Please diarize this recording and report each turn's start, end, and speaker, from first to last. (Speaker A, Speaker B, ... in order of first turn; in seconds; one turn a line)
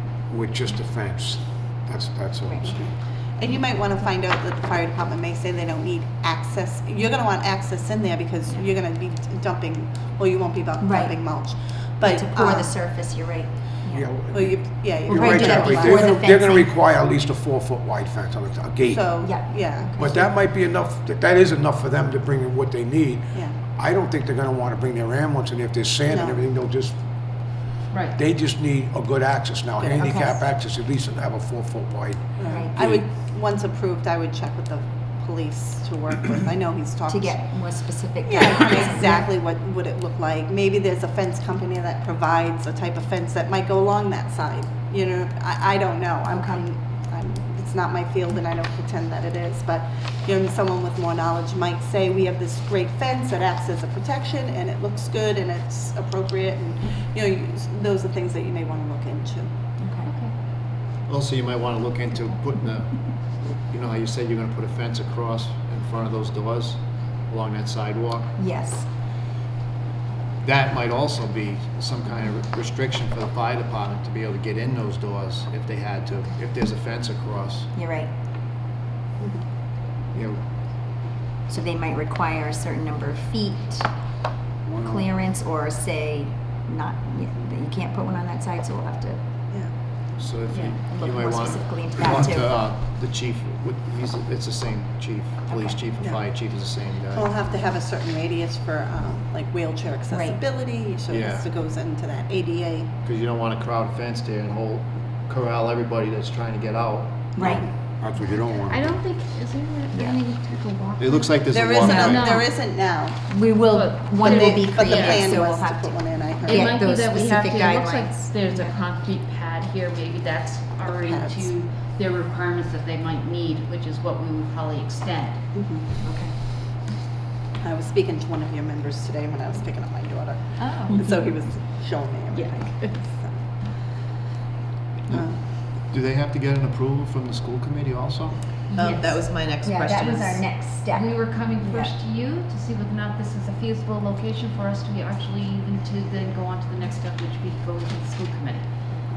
Speaker A: 0.3-2.9
Speaker B: 2.4-2.8
Speaker C: 2.7-12.8
Speaker B: 10.8-14.1
Speaker A: 13.9-19.1
Speaker C: 14.3-16.3
Speaker B: 15.0-16.7
Speaker C: 18.9-20.3
Speaker B: 19.2-19.9
Speaker A: 19.9-33.0
Speaker C: 23.3-23.6
Speaker C: 26.1-26.4
Speaker D: 27.9-28.2
Speaker B: 29.8-30.5
Speaker C: 32.4-37.5
Speaker B: 32.5-32.8
Speaker B: 37.0-39.3
Speaker C: 38.2-59.5
Speaker B: 46.3-46.6
Speaker B: 59.8-60.1
Speaker D: 60.0-60.3
Speaker E: 61.1-68.3
Speaker B: 68.3-68.9
Speaker E: 70.4-77.7
Speaker B: 77.7-78.1
Speaker C: 79.2-79.4
Speaker E: 80.1-80.4
Speaker B: 81.5-83.9
Speaker A: 84.7-85.0
Speaker B: 84.8-89.2
Speaker E: 90.2-97.3
Speaker D: 90.5-90.8
Speaker B: 90.9-92.5
Speaker B: 95.5-95.8
Speaker C: 97.1-103.0
Speaker B: 100.1-100.4
Speaker E: 101.1-101.5
Speaker E: 103.0-107.4
Speaker C: 107.3-107.8
Speaker B: 107.3-107.7
Speaker A: 108.0-109.0
Speaker D: 108.6-112.5
Speaker B: 109.9-110.2
Speaker E: 111.0-112.4
Speaker C: 111.5-113.2
Speaker B: 113.3-118.8
Speaker D: 113.7-115.4
Speaker C: 114.2-116.7
Speaker D: 116.5-125.4
Speaker C: 120.8-121.5
Speaker C: 125.5-125.9
Speaker B: 126.0-126.3
Speaker C: 127.6-133.4
Speaker B: 130.6-131.0
Speaker F: 132.3-132.9
Speaker E: 135.1-138.7
Speaker C: 135.1-135.4
Speaker D: 138.7-139.2
Speaker F: 138.8-140.4
Speaker B: 139.6-141.9
Speaker D: 140.7-148.7